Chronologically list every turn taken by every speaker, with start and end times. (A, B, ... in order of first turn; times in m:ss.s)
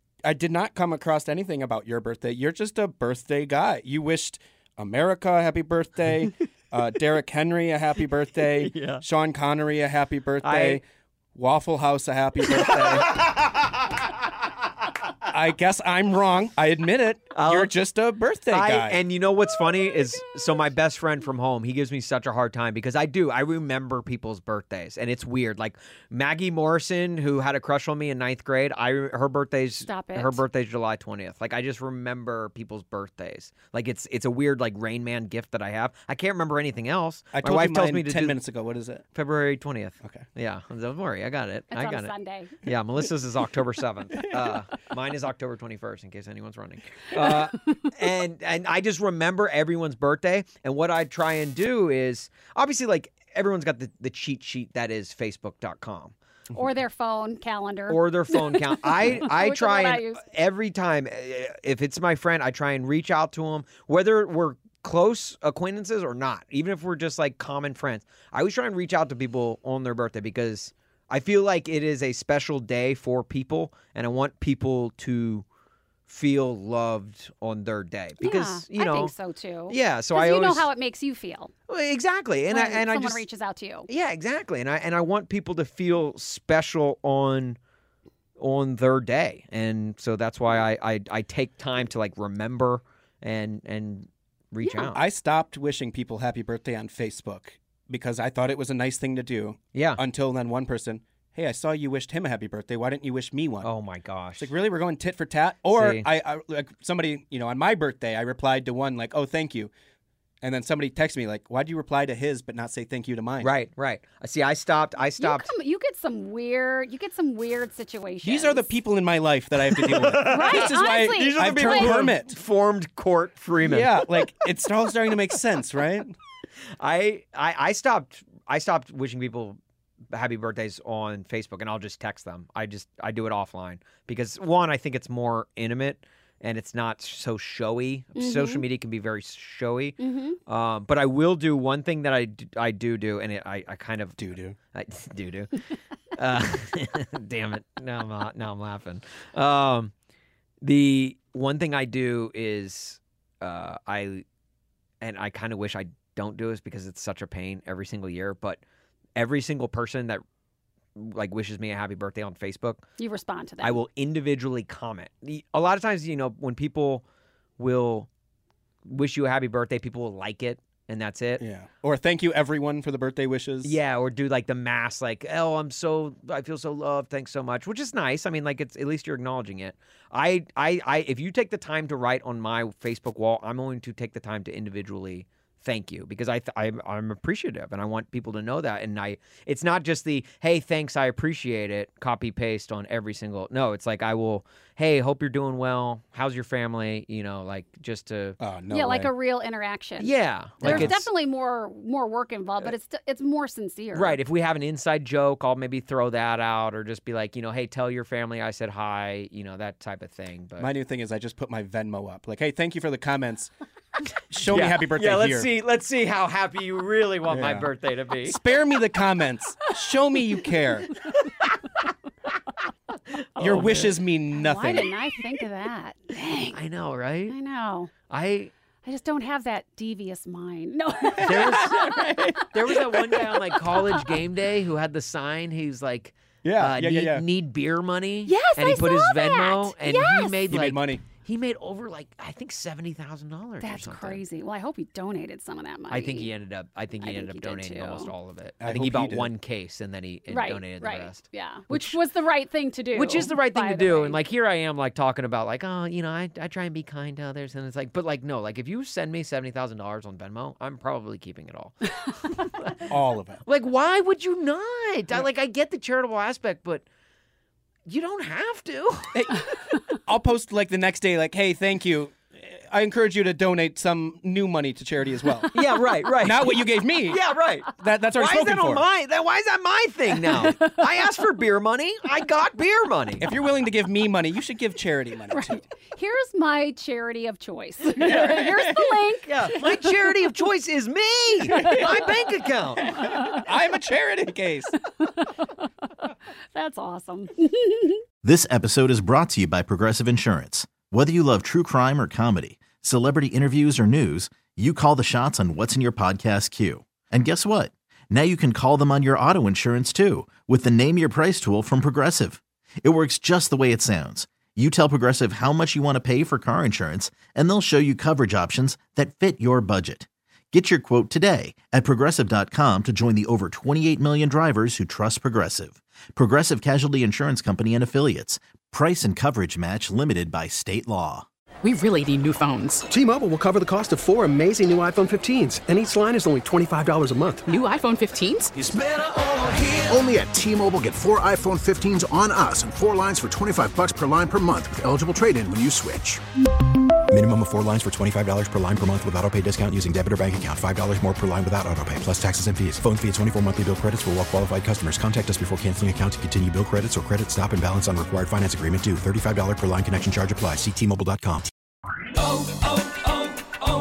0:00.2-0:10.8 A
0:08.5-0:09.0 B
0:10.4-0:10.8 B
0:11.4-0:13.3 A
0:12.4-0:14.1 B
0:15.3-0:19.0 A
0:17.3-0:17.7 B
0:18.5-0:38.4 B
0:29.8-0:30.4 C
0:37.4-0:39.0 A
0:39.1-0:56.1 B
0:41.7-0:42.5 C
0:44.2-0:44.6 A
0:56.5-1:00.2 C
0:57.9-1:15.4 B
1:16.1-1:19.1 B
1:18.2-1:21.5 C
1:19.7-1:20.7 B
1:21.7-1:23.2 B
1:22.5-1:23.9 C
1:23.9-1:27.6 B
1:28.4-1:35.0 B
1:34.6-1:35.0 C
1:34.9-1:43.7 A
1:39.8-1:40.0 B
1:43.6-1:44.5 B
1:44.4-1:49.7 A
1:45.7-1:46.1 B
1:50.4-1:53.5 A
1:53.4-1:55.5 B
1:55.2-1:58.7 C
1:58.2-2:02.4 A
1:59.8-2:04.5 B
2:00.1-2:02.1 C
2:03.6-2:06.2 A
2:06.8-2:09.6 B
2:10.1-2:25.6 B
2:18.2-2:18.6 C
2:20.0-2:20.4 C
2:24.2-2:24.6 A
2:26.2-2:29.9 B
2:30.6-2:34.2 B
2:35.0-2:38.6 B
2:39.2-2:40.2 B
2:41.0-2:42.9 B
2:43.0-2:43.8 C
2:43.6-2:47.0 B
2:47.6-2:48.1 B
2:48.8-2:51.4 B
2:51.4-2:53.8 A
2:53.6-3:18.4 B
3:18.4-3:19.1 A
3:18.7-3:24.2 C
3:20.0-3:21.1 B
3:20.6-3:21.0 A
3:23.9-3:30.7 B
3:30.6-3:33.5 A
3:34.3-3:35.5 A
3:34.4-3:38.4 B
3:37.3-3:37.7 A
3:38.2-3:40.9 A
3:43.4-3:44.0 B
3:43.4-3:44.9 A
3:44.3-3:46.6 C
3:46.5-3:47.4 B
3:47.3-3:47.9 C
3:48.1-3:48.5 B
3:48.8-3:52.3 C
3:51.1-3:52.9 A
3:51.2-4:04.2 B
3:53.3-3:53.8 C
3:56.4-3:57.3 A
3:58.3-4:00.5 C
4:00.5-4:01.0 A
4:03.6-4:06.3 C
4:05.9-4:12.0 B
4:07.0-4:08.1 C
4:08.6-4:09.3 A
4:10.3-4:14.2 C
4:12.9-4:21.9 B
4:22.4-4:22.8 B
4:22.9-4:23.4 A
4:23.5-4:26.8 B
4:27.9-4:29.2 B
4:29.1-4:35.5 A
4:35.5-4:43.3 B
4:36.2-4:37.2 A
4:37.8-4:38.9 A
4:43.2-4:45.7 A
4:45.3-4:49.9 C
4:48.0-4:48.9 A
4:48.1-4:48.4 B
4:49.2-4:53.0 B
4:51.5-4:52.1 A
4:51.5-4:51.9 C
4:52.8-4:54.8 A
4:55.0-4:55.3 C
4:56.5-4:58.0 C
4:58.2-5:31.3 D
5:31.6-5:32.9 E
5:32.9-5:37.5 F
5:37.5-5:38.6 E
5:39.9-5:43.0 G
5:40.2-5:46.2 H
5:44.0-5:44.6 G
5:47.1-6:01.5 H